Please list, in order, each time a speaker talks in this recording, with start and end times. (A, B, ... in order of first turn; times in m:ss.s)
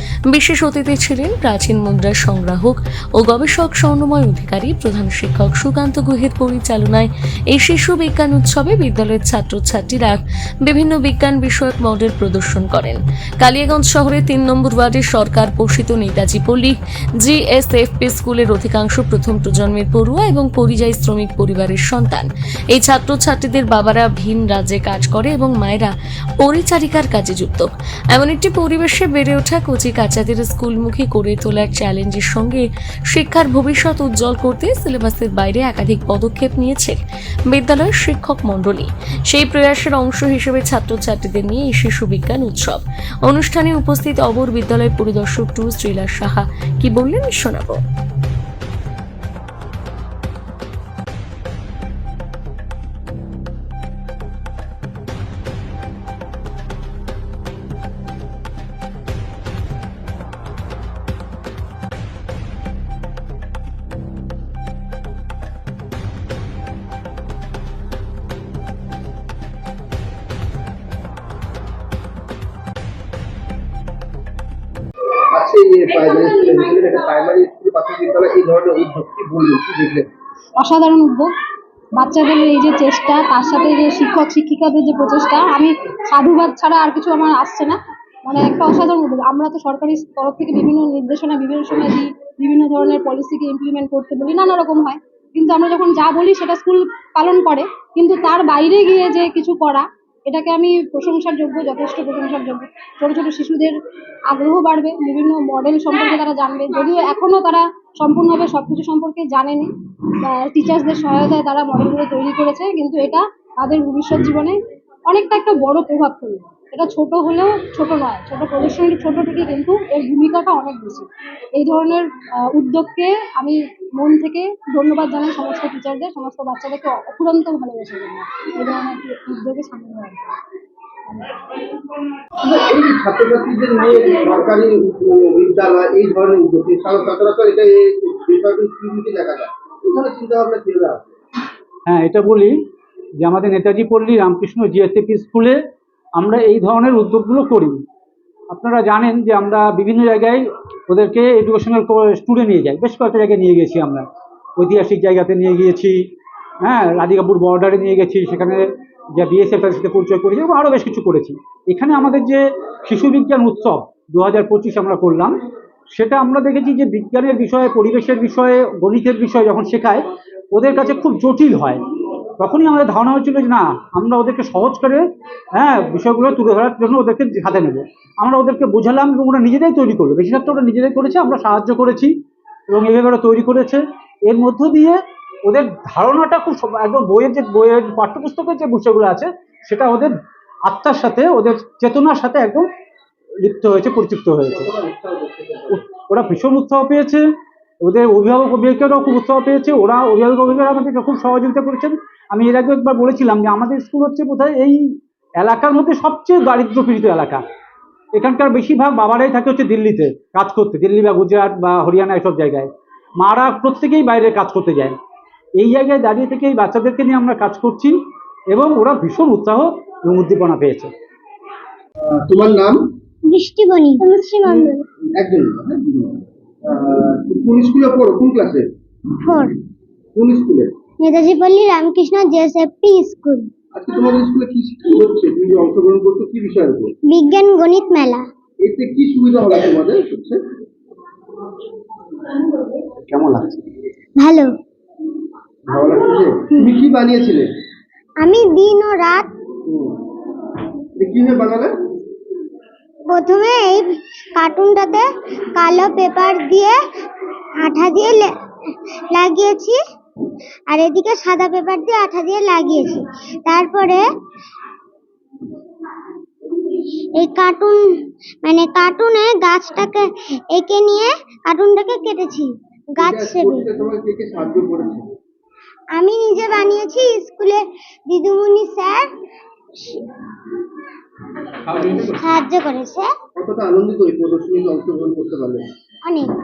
0:00.3-0:37.0 A
0:37.5-0:47.8 A
1:15.3-1:20.1 B
1:20.6-1:21.3 C
1:22.0-1:43.8 C
1:44.3-1:49.7 C
1:50.3-2:10.2 C
2:11.1-2:11.5 C
2:12.4-2:21.0 B
2:21.9-2:22.5 D
2:23.2-2:25.6 D
2:26.2-2:27.8 D
2:28.5-2:34.0 D
2:34.6-2:36.0 D
2:36.6-2:45.4 D
2:45.9-2:51.8 D
2:52.4-2:55.0 D
2:55.6-3:02.2 D
3:02.7-3:05.0 D
3:05.5-3:10.1 D
3:10.7-3:12.6 D
3:13.4-3:14.5 D
3:14.5-3:15.8 B
3:16.0-3:17.2 D
3:17.8-3:24.8 D
3:25.4-3:27.4 D
3:28.2-3:32.7 D
3:33.2-3:35.0 D
3:35.6-3:38.0 D
3:38.6-3:40.9 D
3:42.1-3:42.8 B
3:43.3-3:44.8 E
3:44.4-3:48.7 B
3:49.2-3:49.6 E
3:50.2-3:50.7 B
3:51.0-3:53.5 E
3:53.7-3:56.9 B
3:57.1-3:58.2 E
3:58.6-4:00.5 B
4:03.1-4:03.6 D
4:04.2-4:04.5 E
4:05.7-4:07.5 B
4:08.2-4:09.3 E
4:09.7-4:10.0 B
4:11.0-4:11.7 B
4:13.1-4:16.8 E
4:17.6-4:18.3 E
4:19.1-4:19.8 E
4:20.7-4:24.0 E
4:27.2-4:27.8 E
4:28.4-4:33.6 E
4:33.0-4:35.1 B
4:36.0-4:39.1 E
4:41.7-4:42.3 B
4:42.2-4:43.1 E
4:43.4-4:45.6 B
4:46.1-4:46.3 E